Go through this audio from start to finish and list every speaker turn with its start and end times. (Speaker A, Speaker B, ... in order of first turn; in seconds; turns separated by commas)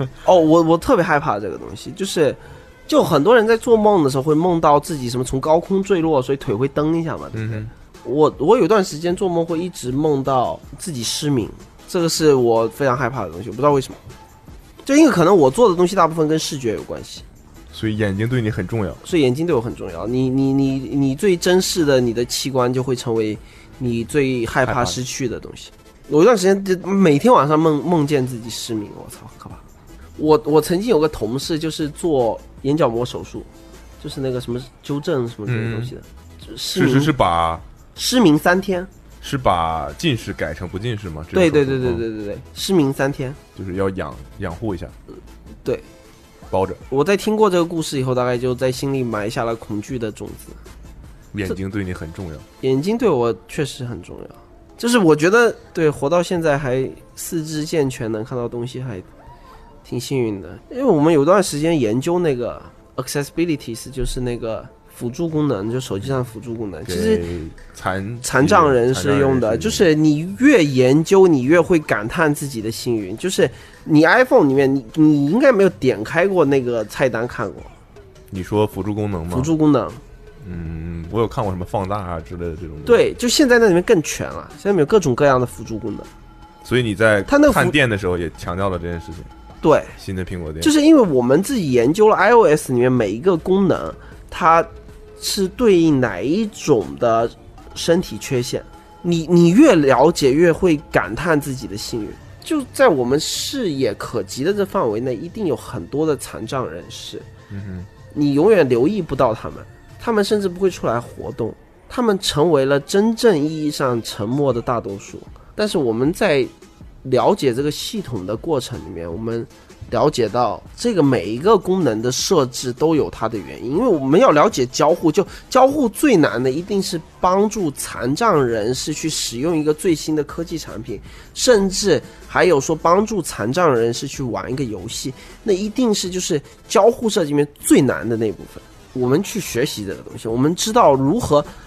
Speaker A: 0.2-14.0, Speaker B: 7.3-7.7, Speaker A: 14.8-17.2, Speaker B: 17.7-19.0, Speaker A: 19.0-29.6, Speaker B: 24.7-25.0, Speaker A: 30.2-33.5, Speaker A: 34.0-37.1, Speaker B: 35.5-35.9, Speaker B: 36.7-37.6, Speaker A: 38.0-38.9, Speaker B: 39.2-42.0, Speaker A: 41.3-43.4, Speaker B: 43.6-44.9, Speaker A: 45.6-45.9, Speaker B: 46.5-46.8, Speaker A: 46.9-50.6, Speaker B: 51.3-52.5, Speaker A: 52.6-59.1, Speaker A: 59.9-67.2, Speaker B: 66.9-69.9, Speaker A: 68.2-77.7, Speaker B: 78.3-79.5, Speaker A: 79.3-80.0, Speaker B: 80.4-83.0, Speaker A: 82.8-86.1, Speaker B: 86.6-89.3, Speaker A: 87.3-87.8, Speaker A: 89.6-90.0, Speaker B: 90.0-90.7, Speaker A: 90.6-107.3, Speaker B: 107.5-107.9, Speaker A: 108.1-116.5, Speaker A: 117.0-141.5